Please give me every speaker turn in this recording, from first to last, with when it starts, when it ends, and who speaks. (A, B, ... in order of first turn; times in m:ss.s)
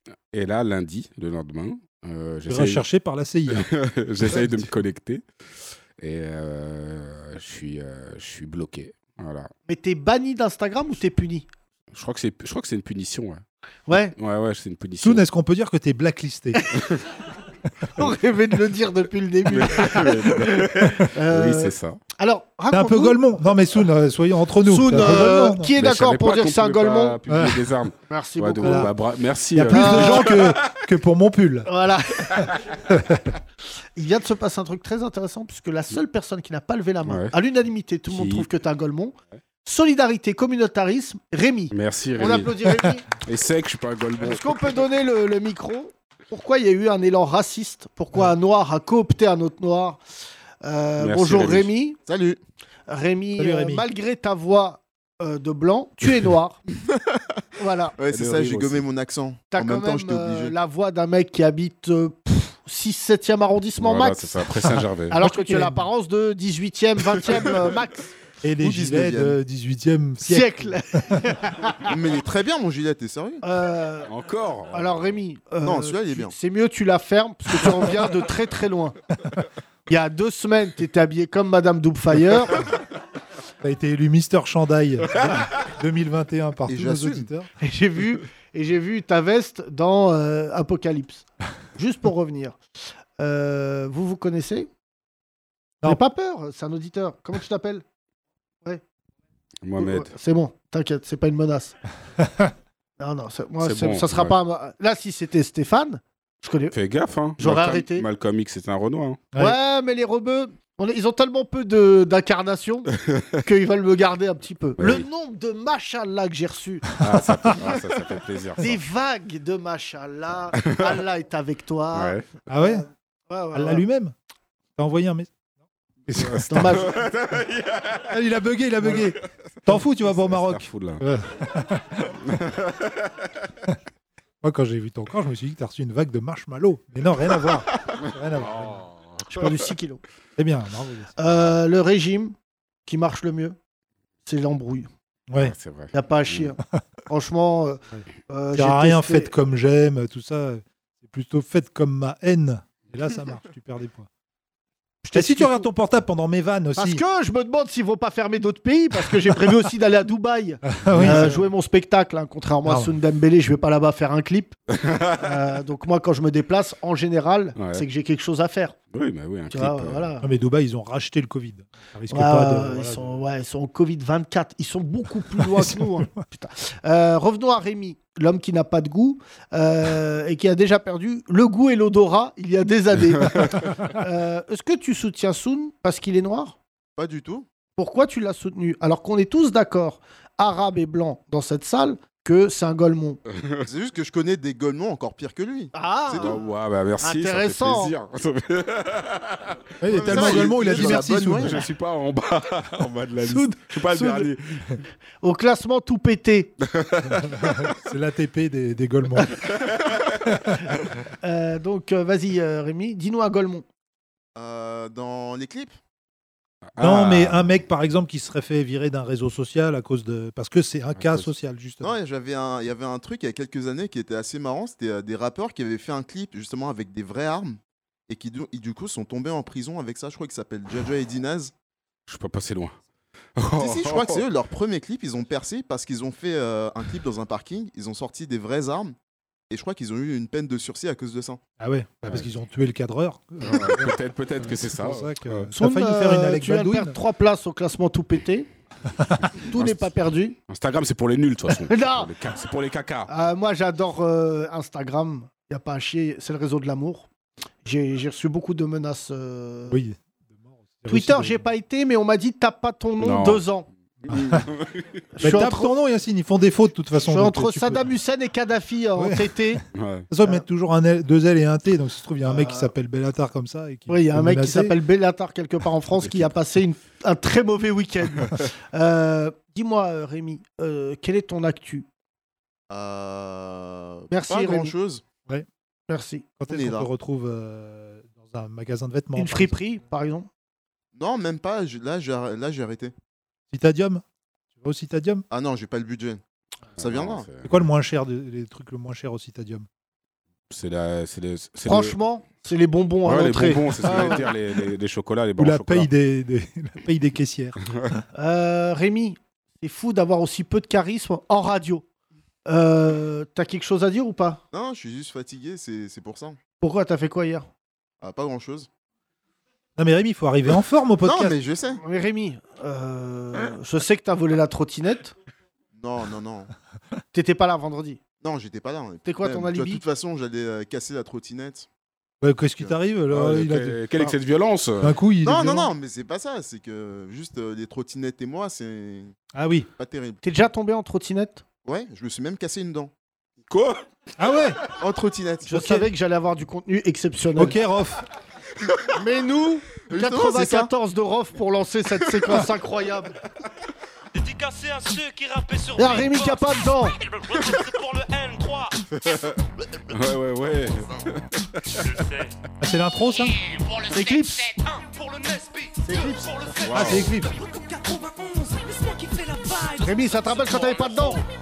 0:00.3-0:02.8 A
0:02.5-0:04.7 B
0:03.5-0:05.2 A
0:06.0-0:09.5 A
0:09.7-0:11.5 C
0:11.9-0:13.4 A
0:13.9-0:14.1 C
0:14.1-0:15.2 A
0:15.0-0:16.6 B
0:18.0-0:23.2 C
0:19.5-0:22.0 A
0:22.7-0:25.7 B
0:24.6-0:27.2 C
0:25.0-0:30.5 A
0:27.3-0:27.7 B
0:28.1-0:28.9 C
0:28.6-0:28.9 B
0:29.5-0:31.7 B
0:29.7-0:30.3 C
0:31.6-0:32.5 C
0:32.9-0:33.3 B
0:34.0-0:43.0 C
0:37.0-0:37.3 A
0:38.1-0:38.5 A
0:41.7-0:44.8 A
0:44.2-0:50.0 C
0:50.6-0:52.0 C
0:51.0-0:51.7 A
0:52.0-0:52.4 D
0:52.9-0:56.6 C
0:53.4-0:53.8 B
0:56.9-0:57.4 D
0:57.6-0:58.0 C
0:58.0-1:00.5 D
0:58.1-0:58.8 A
0:59.5-1:04.3 C
1:03.8-1:05.2 A
1:05.1-1:08.1 C
1:05.1-1:05.8 B
1:08.4-1:11.2 B
1:08.6-1:09.4 D
1:10.2-1:11.9 C
1:11.9-1:13.4 D
1:13.4-1:14.1 C
1:14.1-1:15.1 A
1:14.7-1:18.9 C
1:15.6-1:16.3 D
1:19.9-1:22.6 C
1:23.6-1:27.5 B
1:26.7-1:27.3 D
1:27.6-1:32.6 C
1:33.2-1:34.7 C
1:35.8-1:37.8 C
1:39.6-1:40.1 A
1:39.8-1:41.7 C
1:43.0-1:46.7 C
1:43.6-1:44.3 A
1:46.7-1:49.2 A
1:47.4-1:48.0 C
1:49.4-1:52.9 C
1:53.0-1:53.4 A
1:53.4-1:56.8 C
1:54.8-1:55.0 A
1:57.0-1:58.7 A
1:57.0-1:57.5 B
1:58.6-2:03.8 C
2:00.6-2:00.9 A
2:01.9-2:02.2 A
2:02.5-2:02.8 B
2:03.5-2:04.1 B
2:04.8-2:05.3 B
2:06.1-2:06.8 B
2:06.1-2:08.1 A
2:06.5-2:06.9 C
2:08.1-2:12.2 B
2:08.8-2:11.0 A
2:12.2-2:13.2 A
2:14.4-2:18.8 B
2:18.4-2:19.5 A
2:19.3-2:20.0 C
2:20.4-2:21.1 B
2:21.2-2:22.3 C
2:22.8-2:23.6 C
2:24.2-2:24.9 C
2:25.3-2:25.5 B
2:25.4-2:26.5 A
2:25.9-2:26.6 C
2:27.1-2:29.3 C
2:28.5-2:34.1 B
2:35.0-2:35.7 C
2:35.1-2:37.0 B
2:36.8-2:44.6 C
2:40.7-2:41.4 B
2:42.6-2:42.9 B
2:44.8-2:45.1 A
2:45.1-2:48.8 C
2:47.6-2:47.8 A
2:48.9-2:50.1 A
2:49.5-2:50.3 C
2:50.2-2:53.2 B
2:52.1-3:06.6 C
2:55.4-2:56.0 B
3:07.0-3:07.4 D
3:07.8-3:13.2 C
3:13.3-3:13.6 A
3:13.6-3:16.3 D
3:15.7-3:16.4 C
3:16.1-3:19.5 A
3:17.0-3:17.9 C
3:19.8-3:21.6 B
3:19.9-3:21.6 D
3:20.1-3:24.6 A
3:23.2-3:24.3 C
3:25.2-3:26.5 C
3:26.7-3:27.6 A
3:27.3-3:29.4 B
3:30.2-3:30.5 B
3:31.2-3:33.6 C
3:34.3-3:35.8 D
3:36.7-3:37.6 A
3:36.8-3:42.0 B
3:41.0-3:41.2 A
3:41.8-3:51.5 D
3:52.1-3:52.8 A
3:53.4-3:54.2 A
3:53.6-3:58.9 D
3:59.5-4:01.4 D
4:01.6-4:07.0 B
4:03.4-4:05.5 A
4:05.5-4:08.5 C
4:09.5-4:10.4 C
4:09.5-4:09.8 A
4:10.5-4:13.1 A
4:11.7-4:12.1 C
4:13.1-4:17.1 C
4:17.6-4:19.8 C
4:19.7-4:20.0 B
4:20.7-4:21.4 B
4:20.9-4:23.6 C
4:23.0-4:23.4 A
4:24.0-4:25.0 A
4:24.1-4:24.5 B
4:25.1-4:25.7 C
4:25.2-4:27.9 B
4:27.0-4:29.6 C
4:29.0-4:34.8 B
4:29.7-4:30.1 A
4:32.2-4:32.7 C
4:33.9-4:41.9 C
4:36.0-4:36.3 A
4:42.7-4:45.0 D
4:44.1-4:44.7 C
4:45.9-4:46.3 C
4:46.4-4:49.6 B
4:46.5-4:46.9 D
4:49.2-4:50.3 C
4:50.9-4:52.9 D
4:53.5-4:54.0 B
4:54.6-4:55.2 B
4:55.3-4:56.2 D
4:56.8-4:57.3 D
4:56.8-4:57.5 A
4:57.4-4:59.6 B
5:00.5-5:02.0 A
5:01.6-5:04.2 C
5:03.0-5:05.9 A
5:03.8-5:04.3 B
5:05.4-5:07.7 B
5:08.1-5:11.8 C
5:12.4-5:14.4 C
5:14.5-5:16.4 D
5:16.6-5:17.5 C
5:18.0-5:18.7 D
5:19.8-5:21.4 B
5:21.0-5:21.8 D
5:21.8-5:25.1 C
5:25.7-5:26.5 D
5:27.1-5:28.0 C
5:28.2-5:31.7 D
5:29.0-5:29.8 C
5:32.2-5:34.1 B
5:33.1-5:34.9 A
5:34.8-5:35.7 B
5:35.2-5:39.1 D
5:39.3-5:39.7 B
5:39.8-5:40.2 D
5:40.2-5:41.4 C
5:41.6-5:42.9 D
5:43.5-5:43.8 A
5:44.2-5:44.6 B
5:44.8-5:45.5 D
5:45.4-5:47.6 C
5:45.5-5:45.8 B
5:47.4-5:48.0 B
5:48.9-5:53.2 C
5:49.9-5:50.7 D
5:54.1-5:58.8 E
5:55.8-5:57.0 C
5:59.0-5:59.4 A
5:59.9-6:01.9 A
6:01.9-6:02.3 E
6:02.6-6:03.3 B
6:03.5-6:11.2 E
6:03.9-6:04.6 C
6:05.8-6:06.5 C
6:06.6-6:07.1 A
6:06.7-6:07.4 B
6:09.8-6:11.2 C